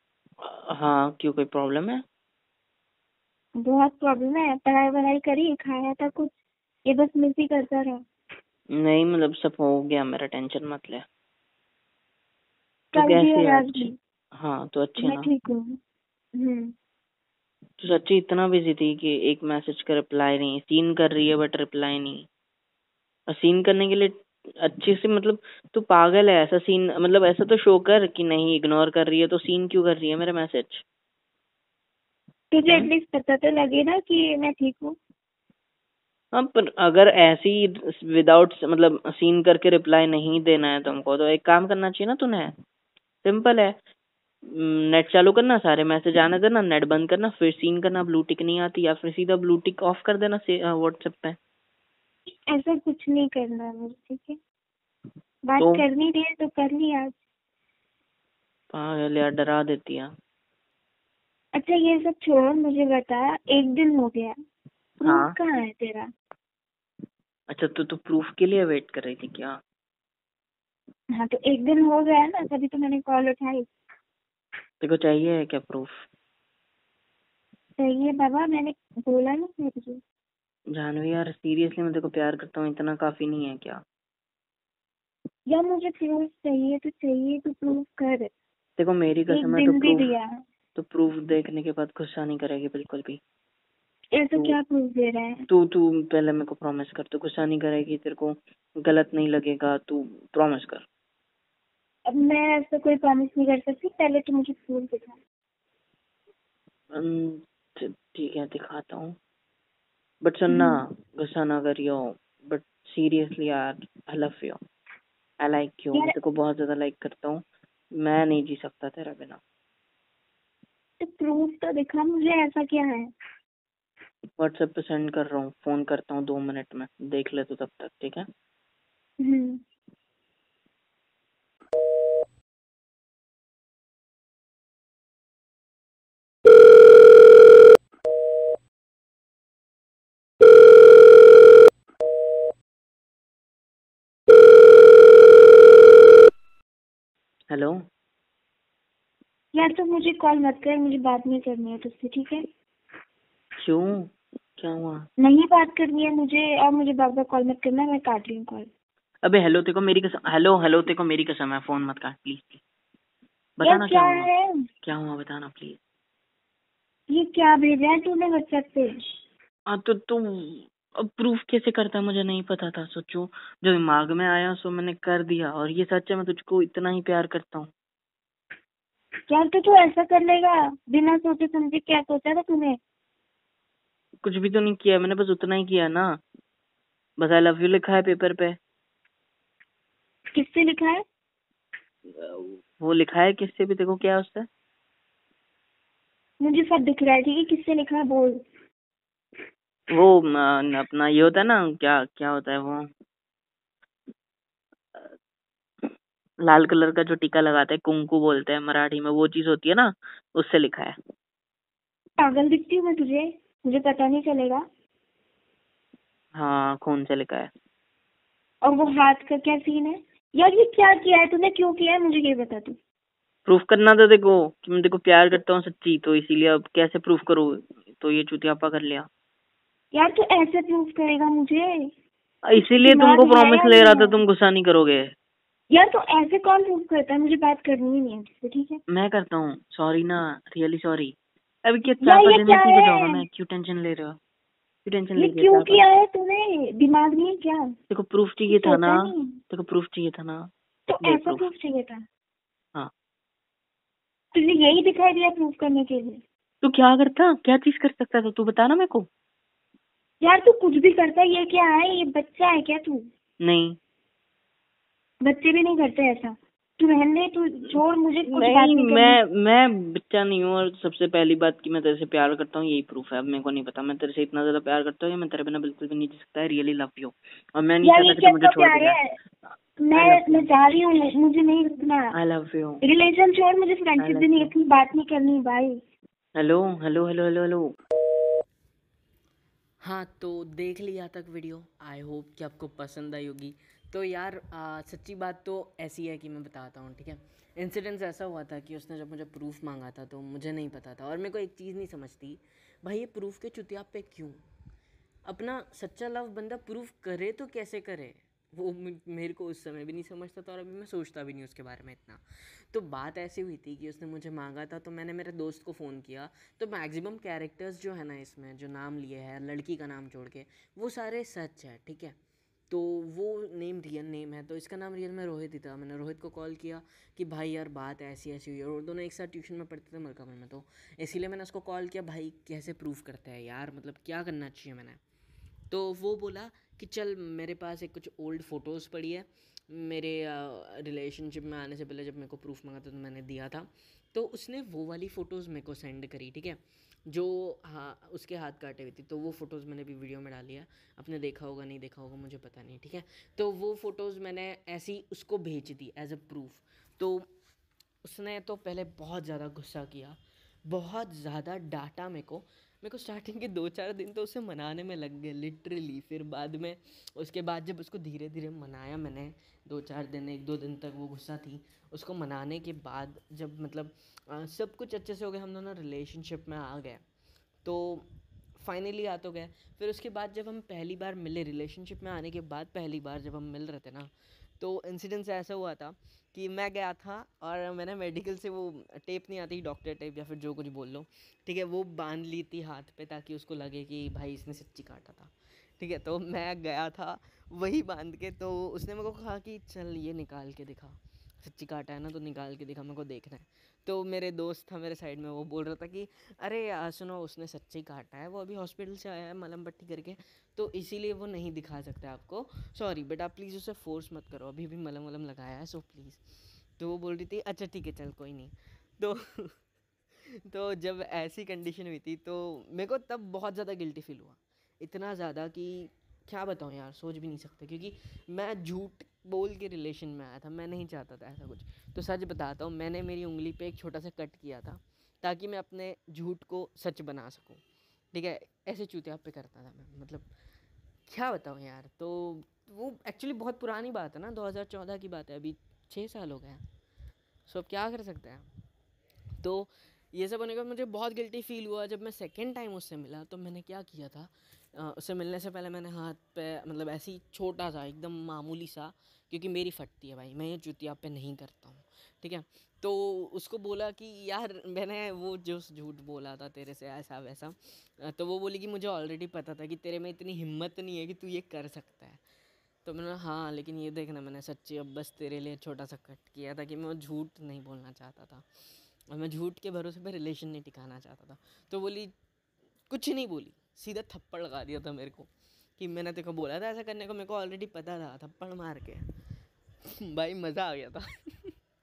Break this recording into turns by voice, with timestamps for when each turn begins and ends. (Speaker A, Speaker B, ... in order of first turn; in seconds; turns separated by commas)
Speaker A: 0.4-2.0, Speaker B: 3.6-6.4, Speaker B: 6.9-8.0, Speaker A: 8.8-11.0, Speaker B: 12.9-14.0, Speaker A: 12.9-15.3, Speaker B: 15.0-15.7, Speaker B: 16.4-16.7, Speaker A: 17.8-22.3, Speaker A: 23.3-30.8, Speaker B: 32.5-35.0, Speaker A: 36.3-42.5, Speaker A: 43.2-43.8, Speaker A: 44.5-51.4, Speaker B: 52.5-54.4, Speaker B: 55.5-57.1, Speaker A: 55.6-55.8, Speaker A: 58.7-60.1, Speaker B: 61.5-64.3, Speaker B: 65.0-66.1, Speaker A: 65.0-65.3, Speaker A: 67.5-69.6, Speaker B: 71.2-73.7, Speaker A: 74.8-76.0, Speaker B: 77.8-80.0, Speaker A: 80.7-83.8, Speaker B: 85.5-88.3, Speaker A: 88.8-90.1, Speaker B: 89.3-90.3, Speaker A: 90.8-93.2, Speaker B: 94.2-95.5, Speaker A: 95.5-100.8, Speaker B: 102.1-105.2, Speaker A: 107.0-109.2, Speaker A: 110.2-114.6, Speaker B: 110.5-110.8, Speaker A: 115.4-117.4, Speaker A: 118.0-119.4, Speaker B: 121.0-123.1, Speaker A: 124.4-128.3, Speaker B: 129.2-129.6, Speaker A: 147.5-147.8, Speaker B: 149.6-152.4, Speaker A: 153.6-155.0, Speaker B: 155.2-158.7, Speaker A: 159.2-162.6, Speaker A: 163.6-164.3, Speaker B: 163.6-164.5, Speaker A: 164.8-165.8, Speaker B: 167.1-168.9, Speaker A: 169.7-177.7, Speaker B: 179.3-182.8, Speaker A: 184.2-186.2, Speaker A: 187.2-188.6, Speaker B: 190.3-191.0, Speaker A: 192.2-194.5, Speaker B: 196.4-198.4, Speaker A: 199.9-202.9, Speaker A: 206.4-211.0, Speaker B: 212.2-214.6, Speaker A: 216.4-217.5, Speaker B: 218.6-222.8, Speaker A: 223.5-229.1, Speaker B: 229.9-231.9, Speaker A: 232.5-235.1, Speaker B: 232.6-234.2, Speaker B: 235.7-238.8, Speaker A: 238.9-244.2, Speaker B: 242.0-243.2, Speaker A: 244.9-245.8, Speaker B: 245.2-247.7, Speaker A: 247.9-250.5, Speaker B: 248.5-249.3, Speaker B: 250.9-252.0, Speaker A: 251.0-251.4, Speaker B: 254.3-256.2, Speaker A: 256.6-259.1, Speaker B: 260.2-263.0, Speaker A: 263.4-263.8, Speaker B: 265.2-269.2, Speaker A: 267.7-279.0, Speaker B: 277.8-279.2, Speaker B: 279.8-282.1, Speaker A: 279.9-280.5, Speaker A: 282.1-282.8, Speaker B: 282.8-285.8, Speaker A: 284.0-284.5, Speaker A: 286.4-287.7, Speaker C: 289.8-304.4, Speaker C: 305.3-322.1, Speaker C: 322.7-335.0, Speaker C: 335.7-357.3, Speaker C: 358.0-377.0, Speaker C: 377.6-378.1, Speaker C: 378.6-416.2, Speaker C: 416.8-419.6, Speaker C: 420.5-437.6, Speaker C: 438.1-440.3, Speaker C: 441.1-446.6, Speaker C: 447.5-448.5, Speaker C: 449.4-472.2, Speaker C: 472.9-478.4, Speaker C: 479.1-482.1, Speaker C: 482.9-489.1, Speaker C: 489.9-491.5